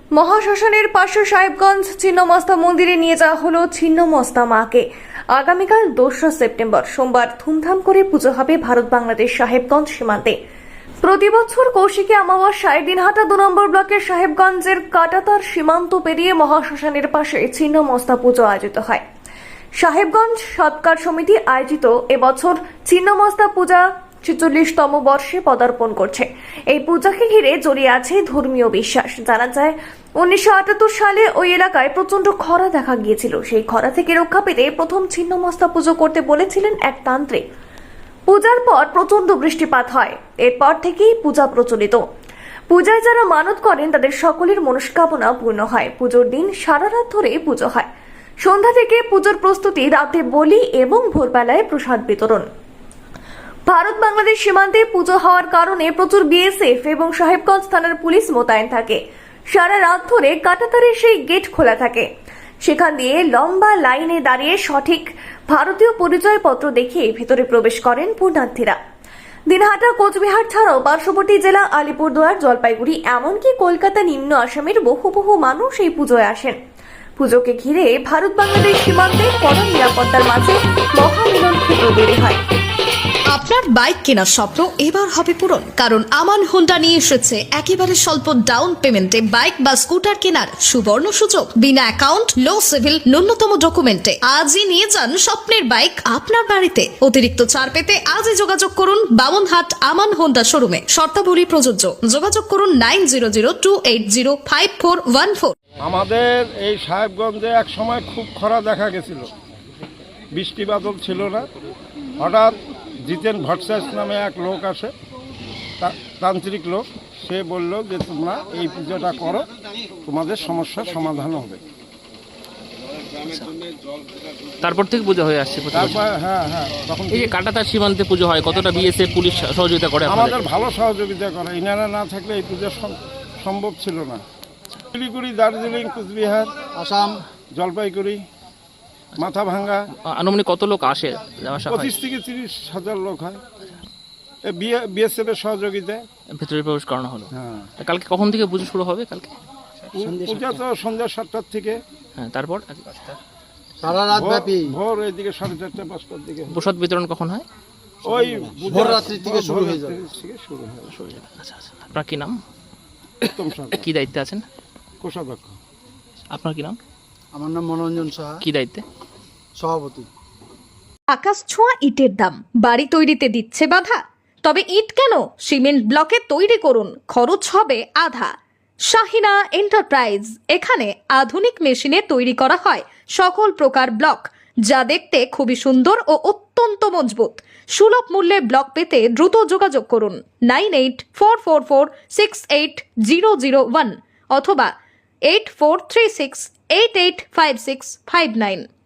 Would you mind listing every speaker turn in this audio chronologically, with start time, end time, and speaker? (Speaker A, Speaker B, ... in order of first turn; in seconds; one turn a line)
Speaker A: 0.1-10.3
Speaker A: 11.0-19.0
Speaker A: 19.8-37.4
Speaker A: 38.3-42.0
Speaker A: 42.7-47.9
Speaker A: 48.4-52.5
Speaker A: 53.7-59.0
Speaker A: 59.5-62.0
Speaker A: 62.6-68.8
Speaker A: 69.5-76.5
Speaker A: 77.2-82.4
Speaker B: 83.3-105.5
Speaker C: 105.8-109.3
Speaker C: 110.3-111.5
Speaker C: 112.2-114.9
Speaker C: 115.8-119.5
Speaker C: 120.0-121.6
Speaker D: 123.2-123.5
Speaker D: 124.6-126.0
Speaker C: 125.7-127.3
Speaker D: 127.1-130.4
Speaker C: 130.1-134.2
Speaker C: 134.9-136.5
Speaker E: 136.8-137.2
Speaker C: 137.5-138.2
Speaker C: 139.2-139.8
Speaker D: 140.0-141.9
Speaker C: 141.7-143.4
Speaker C: 144.5-146.0
Speaker D: 146.3-149.3
Speaker C: 147.3-147.7
Speaker C: 150.0-151.8
Speaker E: 150.0-150.5
Speaker D: 152.2-153.2
Speaker E: 153.8-154.8
Speaker C: 154.1-156.6
Speaker D: 156.5-157.4
Speaker C: 158.1-160.9
Speaker E: 158.4-160.0
Speaker D: 160.9-162.4
Speaker C: 163.2-163.8
Speaker D: 163.7-164.4
Speaker C: 165.0-165.6
Speaker D: 166.3-166.8
Speaker E: 167.3-168.4
Speaker D: 168.4-168.8
Speaker E: 169.6-170.1
Speaker B: 171.1-178.3
Speaker B: 178.9-194.7
Speaker B: 195.3-198.7